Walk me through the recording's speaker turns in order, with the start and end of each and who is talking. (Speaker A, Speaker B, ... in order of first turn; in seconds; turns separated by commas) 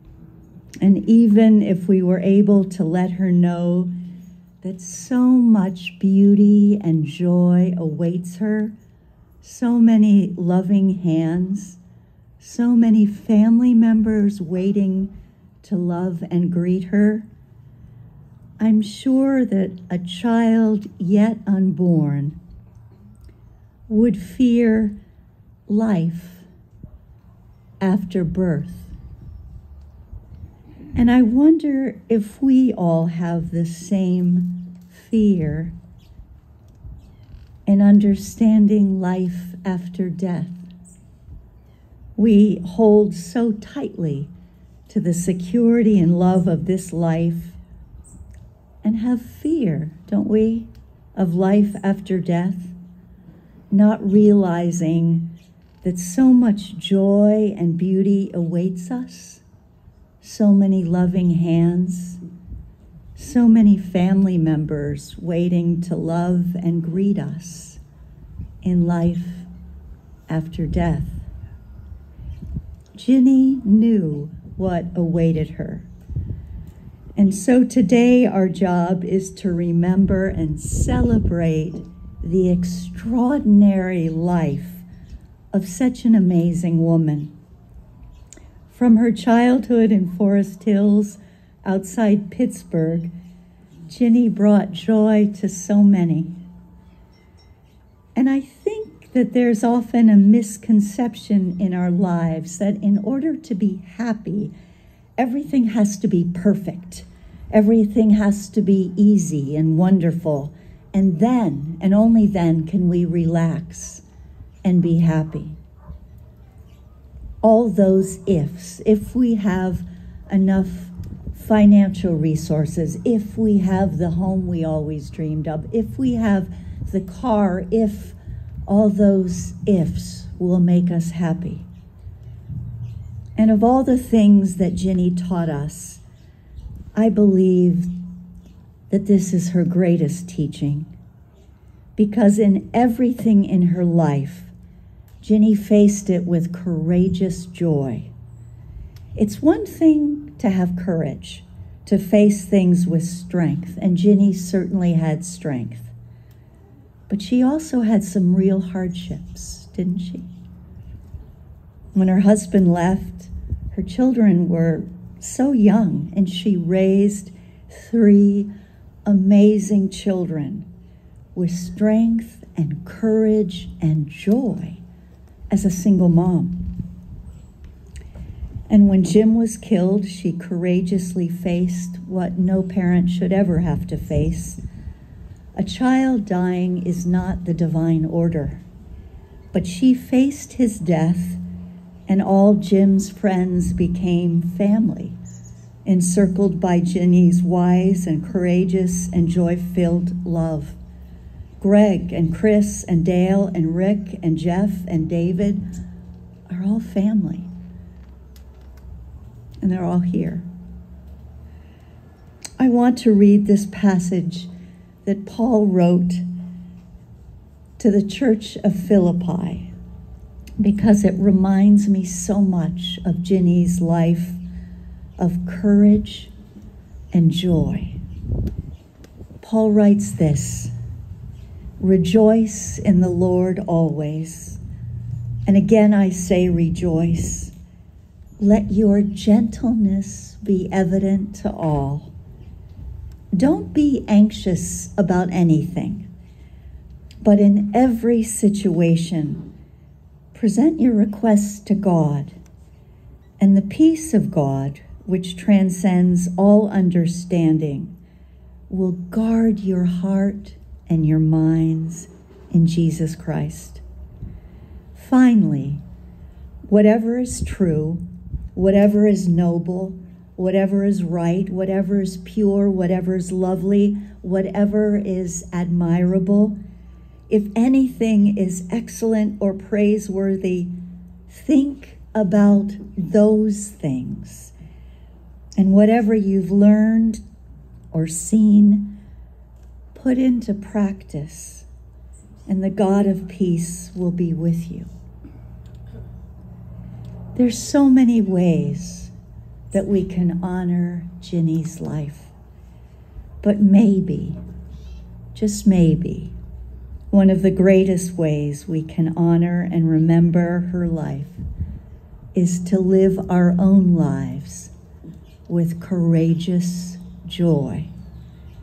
Speaker A: 0.8-3.9, Speaker A: 4.6-8.8, Speaker A: 9.4-11.8, Speaker A: 12.4-17.3, Speaker A: 18.6-22.4, Speaker A: 23.9-25.0, Speaker A: 25.7-26.5, Speaker A: 27.8-28.9, Speaker A: 30.9-35.7, Speaker A: 37.7-40.6, Speaker A: 42.2-44.3, Speaker A: 44.9-47.6, Speaker A: 48.8-52.7, Speaker A: 53.7-59.4, Speaker A: 60.2-62.2, Speaker A: 63.2-67.8, Speaker A: 68.6-69.5, Speaker A: 70.3-71.3, Speaker A: 72.9-75.9, Speaker A: 77.2-84.8, Speaker A: 85.5-87.3, Speaker A: 88.7-93.1, Speaker A: 93.9-96.4, Speaker A: 98.2-104.5, Speaker A: 105.2-114.0, Speaker A: 114.6-115.6, Speaker A: 117.4-131.7, Speaker A: 133.4-136.0, Speaker A: 136.9-137.9, Speaker A: 138.9-140.9, Speaker A: 142.0-144.5, Speaker A: 145.2-148.1, Speaker A: 149.2-155.9, Speaker A: 157.1-160.3, Speaker A: 161.9-168.5, Speaker A: 169.1-170.7, Speaker A: 171.3-174.8, Speaker A: 175.5-176.8, Speaker A: 178.7-184.6, Speaker A: 185.6-188.6, Speaker A: 189.5-191.4, Speaker A: 192.1-195.2, Speaker A: 195.8-200.8, Speaker A: 201.6-205.7, Speaker A: 206.5-207.5, Speaker A: 209.6-210.5, Speaker A: 212.6-214.5, Speaker A: 215.1-216.2, Speaker A: 217.8-219.7, Speaker A: 220.6-224.4, Speaker A: 225.2-226.3, Speaker A: 227.1-228.0, Speaker A: 229.4-230.7, Speaker A: 231.8-234.6, Speaker A: 235.5-237.5, Speaker A: 238.4-242.1, Speaker A: 243.3-246.1, Speaker A: 247.2-249.5, Speaker A: 250.3-252.4, Speaker A: 253.4-257.9, Speaker A: 258.7-263.8, Speaker A: 264.9-265.8, Speaker A: 266.7-276.6, Speaker A: 277.3-280.7, Speaker A: 281.3-284.5, Speaker A: 285.6-287.2, Speaker A: 287.9-289.0, Speaker A: 289.9-291.7, Speaker A: 292.5-294.9, Speaker A: 297.4-299.1, Speaker A: 299.7-302.3, Speaker A: 303.4-304.4, Speaker A: 305.4-306.3, Speaker A: 307.1-311.4, Speaker A: 312.3-314.7, Speaker A: 315.5-317.9